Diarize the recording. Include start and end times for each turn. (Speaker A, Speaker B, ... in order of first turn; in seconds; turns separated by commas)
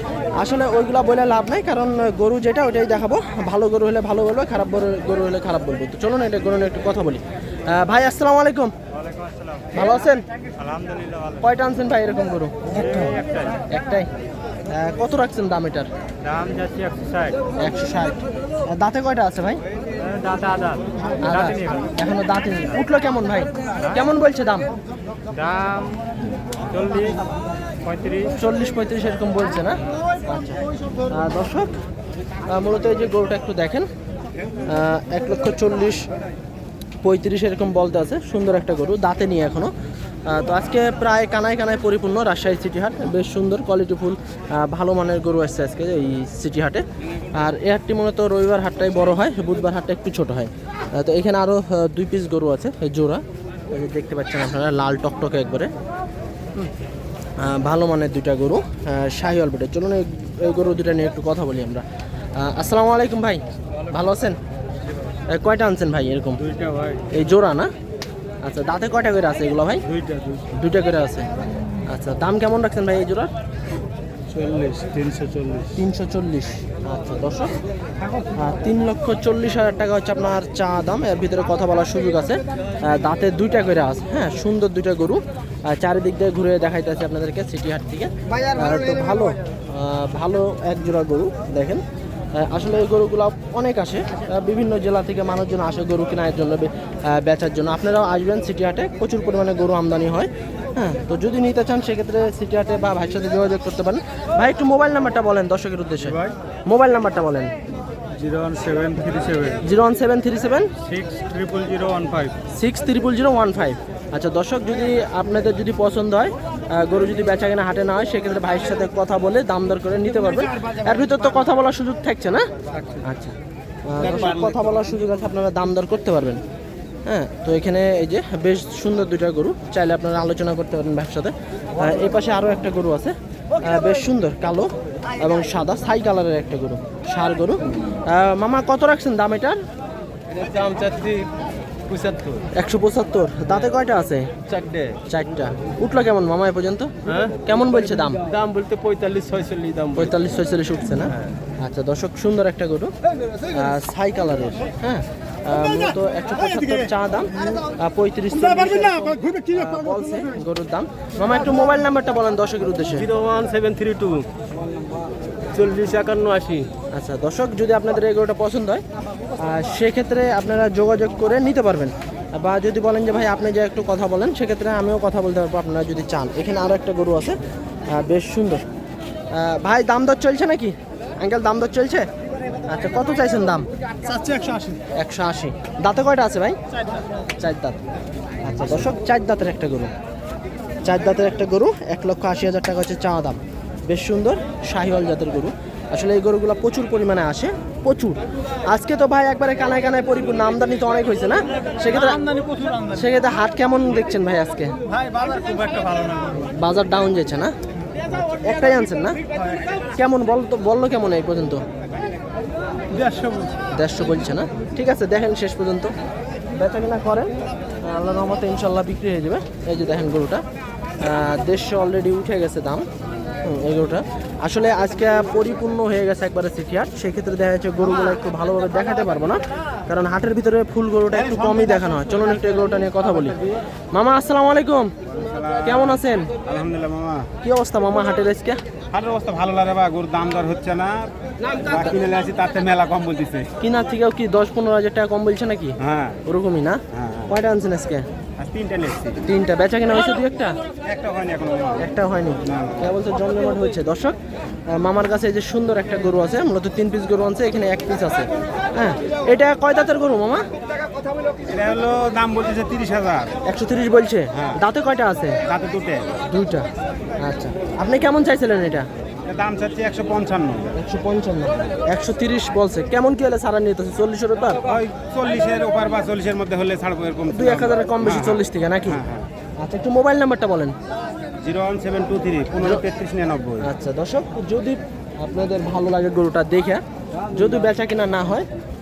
Speaker A: 0.3-8.7, Speaker B: 8.9-9.8, Speaker A: 9.7-10.2, Speaker B: 10.5-11.5, Speaker A: 11.4-12.7, Speaker B: 12.7-13.6, Speaker A: 13.7-14.1, Speaker A: 14.7-15.9, Speaker B: 16.2-17.4, Speaker A: 17.6-19.6, Speaker C: 20.0-21.9, Speaker A: 21.2-24.7, Speaker B: 25.3-25.9, Speaker C: 25.4-25.8, Speaker B: 26.7-27.1, Speaker C: 26.7-27.2, Speaker C: 27.9-28.3, Speaker A: 28.4-30.6, Speaker A: 31.1-31.7, Speaker A: 32.5-33.9, Speaker A: 34.7-36.1, Speaker A: 37.0-39.7, Speaker A: 40.3-46.8, Speaker A: 47.4-55.7, Speaker A: 57.4-61.8, Speaker A: 62.4-64.4, Speaker A: 65.3-66.4, Speaker B: 66.4-67.0, Speaker A: 67.1-67.7, Speaker A: 68.4-69.8, Speaker B: 69.9-70.4, Speaker A: 70.5-71.3, Speaker A: 71.9-73.3, Speaker C: 74.3-75.6, Speaker B: 75.2-75.6, Speaker A: 75.7-77.5, Speaker A: 78.3-91.8, Speaker A: 92.3-107.5, Speaker B: 106.0-106.3, Speaker B: 108.1-109.6, Speaker A: 109.6-110.7, Speaker B: 110.8-112.3, Speaker A: 112.5-122.5, Speaker B: 122.7-123.0, Speaker A: 123.0-123.3, Speaker A: 123.8-126.4, Speaker B: 124.0-124.7, Speaker A: 127.0-139.6, Speaker C: 140.3-141.2, Speaker C: 141.9-142.4, Speaker A: 142.5-144.3, Speaker C: 144.5-144.8, Speaker A: 145.1-146.9, Speaker A: 147.4-148.2, Speaker C: 148.3-150.1, Speaker A: 149.9-152.9, Speaker A: 153.5-163.1, Speaker C: 163.0-164.2, Speaker C: 165.5-166.7, Speaker A: 166.9-168.8, Speaker A: 169.4-177.4, Speaker A: 177.9-178.6, Speaker A: 179.3-182.1, Speaker A: 182.7-183.7, Speaker B: 184.1-184.7, Speaker A: 184.9-186.6, Speaker A: 187.4-187.8, Speaker A: 188.5-189.9, Speaker A: 190.8-202.2, Speaker C: 202.3-202.8, Speaker A: 202.9-204.8, Speaker B: 204.9-206.5, Speaker A: 206.5-207.5, Speaker A: 208.1-209.2, Speaker A: 209.9-211.6, Speaker B: 212.9-213.5, Speaker A: 213.7-215.9, Speaker A: 216.6-217.3, Speaker A: 217.8-220.4, Speaker A: 221.0-222.8, Speaker A: 223.4-233.4, Speaker A: 233.9-234.9, Speaker B: 235.1-237.3, Speaker A: 235.6-236.3, Speaker A: 237.4-238.6, Speaker B: 238.9-243.5, Speaker A: 243.6-248.1, Speaker B: 245.8-246.2, Speaker B: 246.9-247.3, Speaker B: 248.4-249.2, Speaker A: 249.2-250.6, Speaker B: 250.8-251.8, Speaker A: 251.8-254.2, Speaker B: 252.4-252.9, Speaker A: 254.7-260.4, Speaker B: 261.4-263.3, Speaker A: 263.4-265.4, Speaker B: 264.3-264.6, Speaker B: 265.4-266.1, Speaker A: 266.3-266.7, Speaker A: 267.2-268.9, Speaker B: 269.2-270.8, Speaker A: 270.8-274.6, Speaker B: 274.6-279.3, Speaker A: 277.3-279.0, Speaker A: 279.6-280.7, Speaker B: 281.4-283.7, Speaker A: 283.6-288.5